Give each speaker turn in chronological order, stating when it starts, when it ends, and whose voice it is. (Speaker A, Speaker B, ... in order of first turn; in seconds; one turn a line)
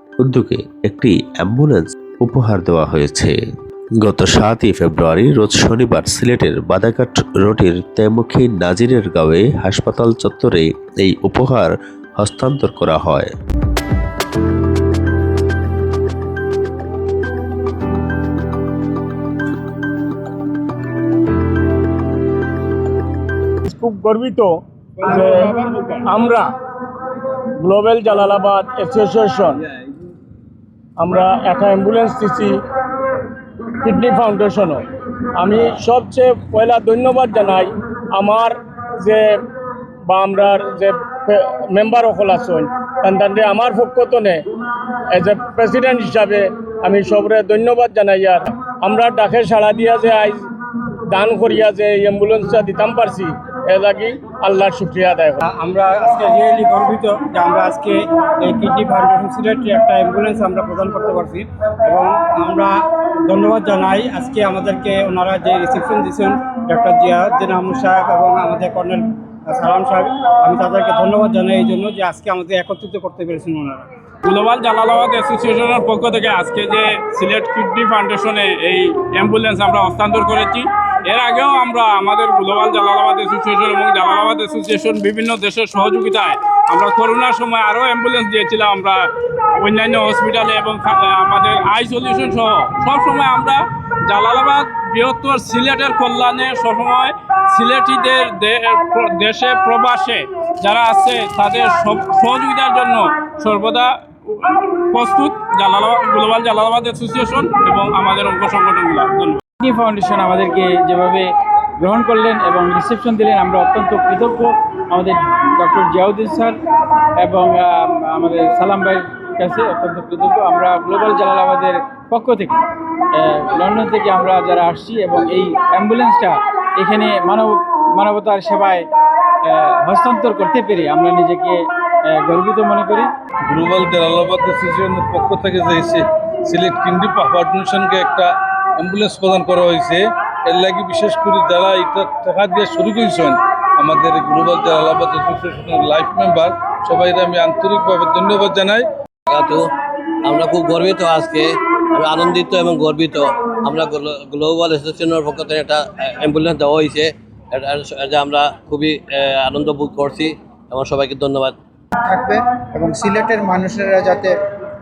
Speaker A: 0.2-3.4
Speaker A: 4.0-13.3
Speaker B: 23.7-26.5
Speaker B: 27.6-29.6
Speaker B: 31.0-32.6
Speaker B: 33.8-34.8
Speaker B: 35.4-39.4
Speaker B: 40.1-44.4
Speaker B: 45.1-50.5
Speaker B: 51.1-55.4
Speaker C: 55.4-62.7
Speaker C: 63.3-73.8
Speaker D: 74.2-89.1
Speaker D: 89.6-109.4
Speaker E: 109.6-111.3
Speaker E: 111.8-116.6
Speaker E: 117.2-122.5
Speaker E: 123.1-128.8
Speaker E: 129.4-133.1
Speaker F: 133.5-148.8
Speaker G: 149.3-149.7
Speaker G: 150.2-161.5
Speaker H: 162.0-164.3